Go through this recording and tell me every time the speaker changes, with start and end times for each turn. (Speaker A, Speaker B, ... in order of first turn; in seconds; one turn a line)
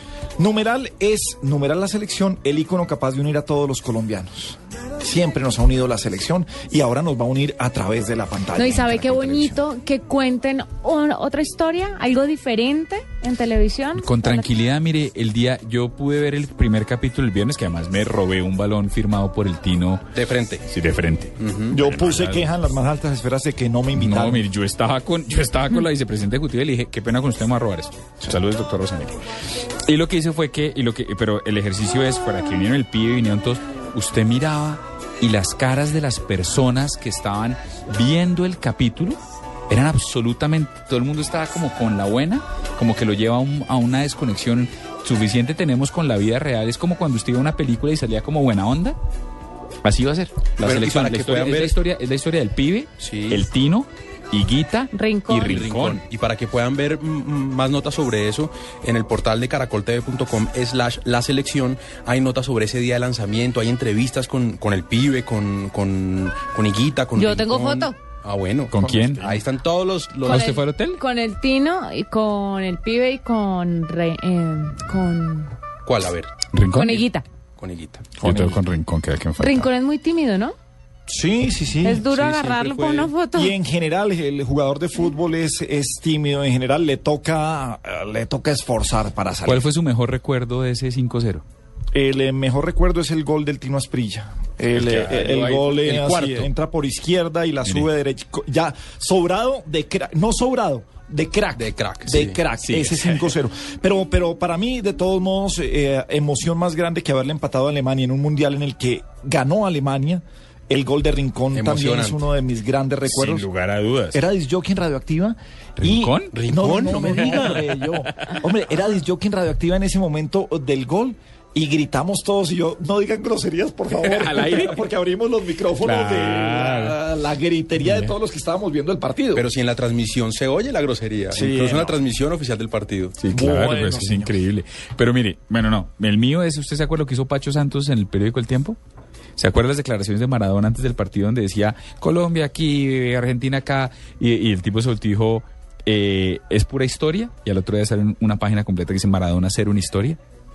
Speaker A: 0.4-9.6
Speaker B: 8.5-14.5
Speaker C: 14.0-20.1
Speaker D: 20.1-20.6
Speaker C: 20.7-22.5
Speaker D: 21.4-21.8
Speaker A: 21.7-24.4
Speaker C: 23.9-29.2
Speaker C: 29.8-39.2
Speaker C: 39.7-49.0
Speaker C: 49.8-56.0
Speaker D: 50.6-51.7
Speaker D: 53.0-53.4
Speaker B: 54.9-55.7
Speaker D: 55.4-70.5
Speaker B: 67.1-68.0
Speaker C: 68.7-69.4
Speaker B: 70.2-75.5
Speaker C: 70.2-71.0
Speaker D: 75.8-78.2
Speaker C: 76.5-77.0
Speaker B: 76.7-77.2
Speaker C: 78.2-79.7
Speaker A: 78.2-78.5
Speaker B: 79.4-80.5
Speaker A: 81.1-82.0
Speaker B: 81.8-83.5
Speaker D: 82.0-83.1
Speaker A: 83.3-89.7
Speaker C: 89.4-91.4
Speaker A: 91.9-113.5
Speaker C: 94.7-96.5
Speaker D: 101.5-102.4
Speaker C: 102.6-103.4
Speaker D: 111.5-112.2
Speaker C: 113.0-114.2
Speaker A: 114.1-129.4
Speaker C: 115.8-116.3
Speaker D: 116.3-117.7
Speaker C: 124.0-124.8
Speaker C: 125.8-127.0
Speaker C: 127.8-128.1
Speaker D: 129.3-133.2
Speaker A: 131.3-132.0
Speaker C: 133.2-138.8
Speaker A: 133.3-134.3
Speaker C: 139.4-150.2